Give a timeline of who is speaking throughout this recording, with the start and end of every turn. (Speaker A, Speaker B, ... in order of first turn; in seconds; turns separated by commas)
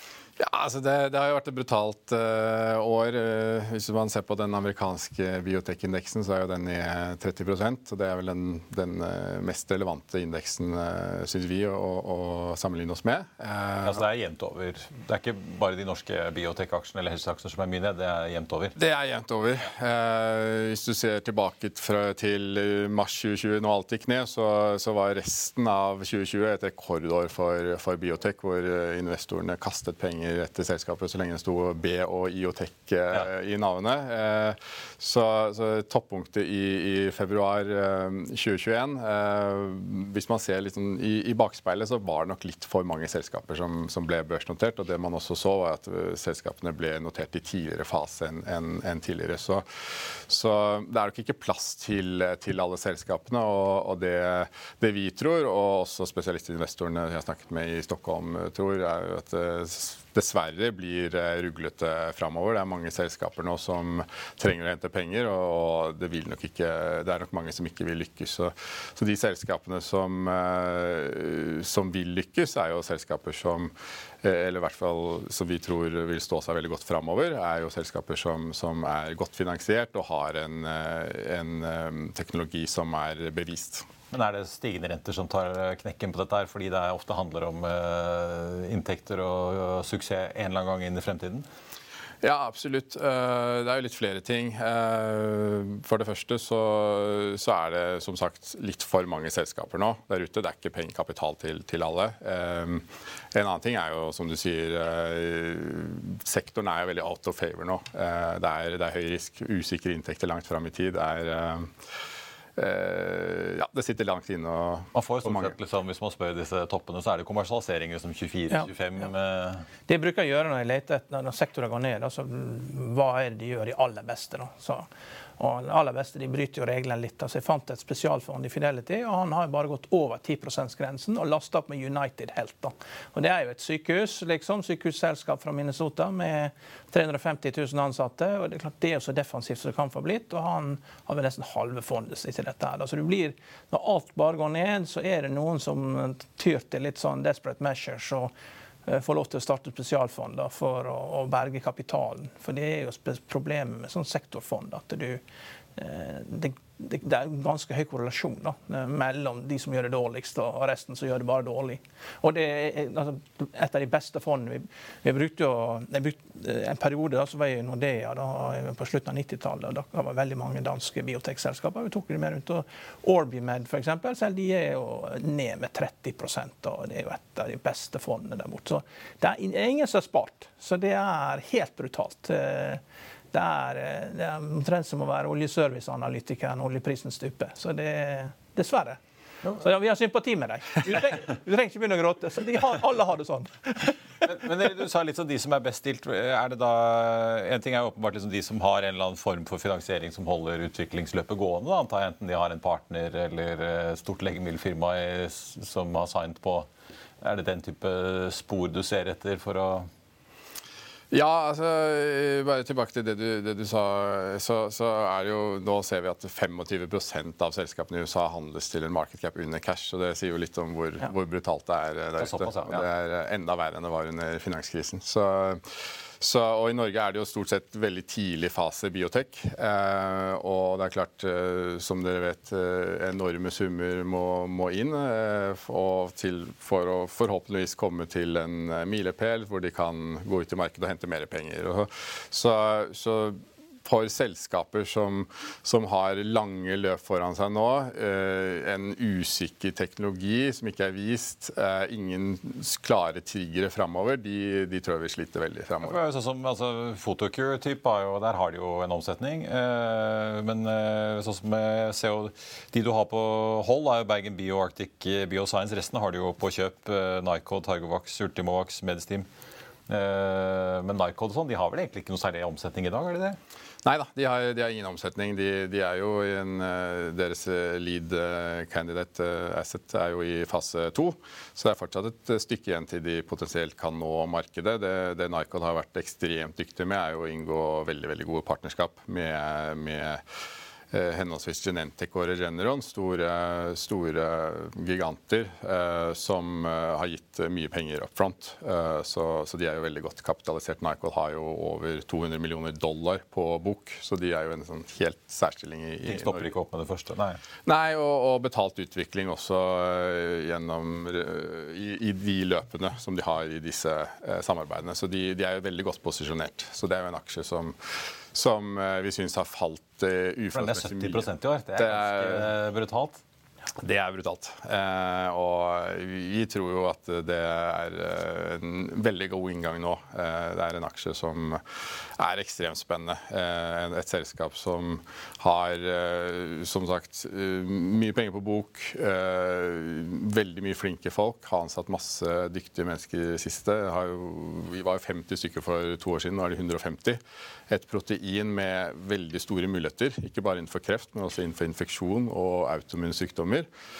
Speaker A: 0.4-14.0, Speaker B: 13.8-18.8, Speaker A: 18.8-83.9, Speaker B: 84.1-91.5, Speaker A: 92.2-111.7, Speaker A: 112.5-115.5, Speaker B: 114.9-119.7, Speaker C: 119.9-124.9, Speaker C: 125.4-148.3, Speaker C: 148.8-155.2, Speaker C: 155.8-182.8, Speaker C: 183.3-189.0, Speaker C: 189.5-193.8, Speaker B: 194.2-206.7, Speaker B: 207.2-209.9, Speaker A: 211.1-256.0, Speaker B: 222.2-222.8, Speaker B: 255.8-269.3, Speaker B: 269.9-273.4, Speaker A: 273.8-290.2, Speaker A: 290.9-306.5, Speaker B: 306.0-307.4, Speaker A: 307.6-322.5, Speaker B: 320.5-323.2, Speaker A: 323.8-331.6, Speaker A: 332.2-353.7